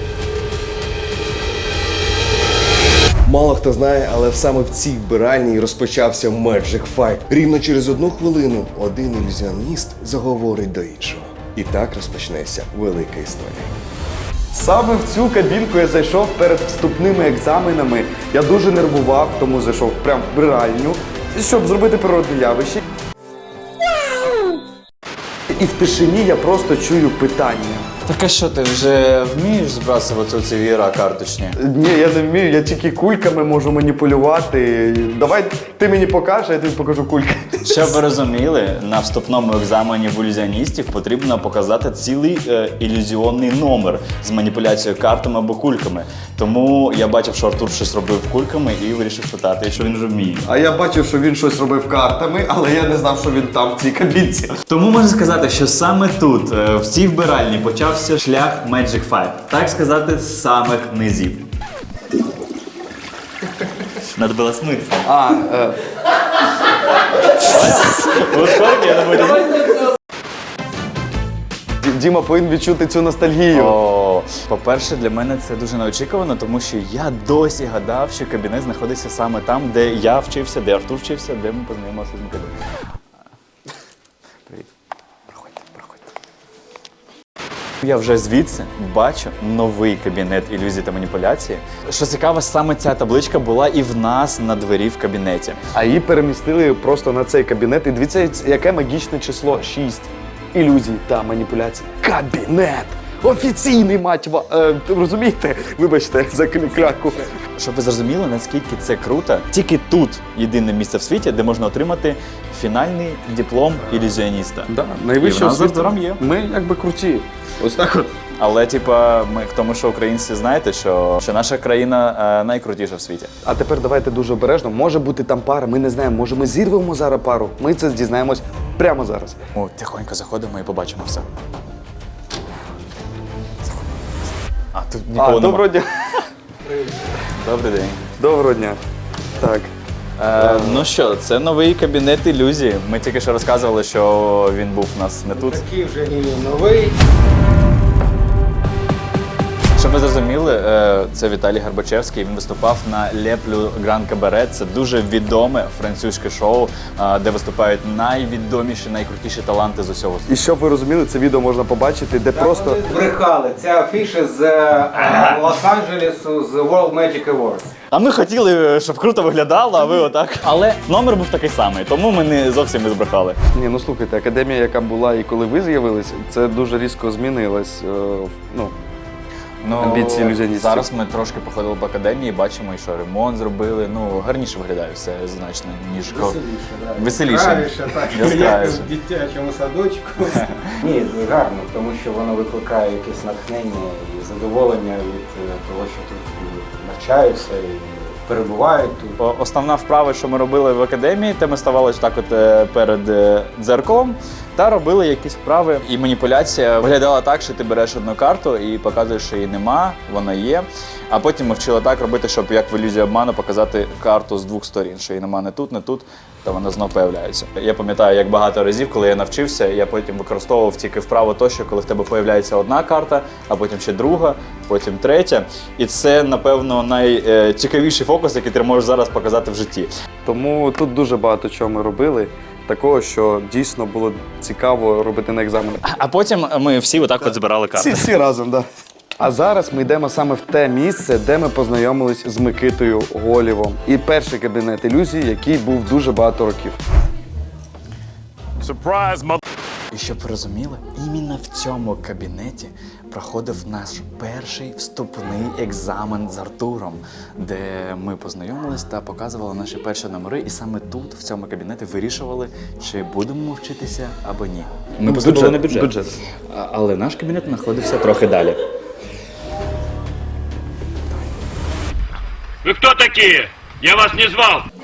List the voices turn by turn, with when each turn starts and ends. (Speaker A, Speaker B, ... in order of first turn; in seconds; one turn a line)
Speaker A: 3.2-13.7
Speaker B: 14.5-22.8
Speaker B: 25.6-27.8
Speaker C: 28.1-31.6
Speaker B: 31.6-37.9
Speaker C: 37.6-50.5
Speaker B: 50.5-54.5
Speaker C: 54.7-61.5
Speaker C: 64.2-65.1
Speaker B: 65.1-65.8
Speaker C: 67.4-69.8
Speaker B: 71.8-73.8
Speaker C: 73.5-82.5
Speaker C: 85.3-86.1
Speaker C: 87.8-95.6
Speaker B: 95.8-107.2
Speaker C: 107.6-116.2
Speaker B: 114.7-118.1
Speaker C: 118.4-123.3
Speaker B: 123.4-129.4
Speaker C: 129.6-131.2
Speaker C: 134.7-135.8
Speaker B: 135.2-135.9
Speaker C: 137.4-138.0
Speaker B: 138.2-138.8
Speaker B: 139.4-139.7
Speaker C: 140.2-145.6
Speaker B: 140.4-140.8
Speaker D: 145.3-146.9
Speaker C: 149.8-160.4
Speaker B: 160.3-162.8
Speaker D: 162.3-167.7
Speaker C: 165.0-165.4
Speaker C: 167.9-173.4
Speaker B: 173.5-178.7
Speaker C: 179.6-186.4
Speaker B: 179.7-180.8
Speaker D: 186.1-199.2
Speaker C: 186.9-188.9
Speaker C: 199.2-229.9
Speaker B: 230.2-235.8
Speaker C: 235.8-238.1
Speaker B: 237.7-238.6
Speaker B: 239.2-246.8
Speaker E: 248.6-249.3
Speaker C: 249.9-265.9
Speaker B: 265.0-266.1
Speaker C: 266.5-268.6
Speaker E: 272.6-274.6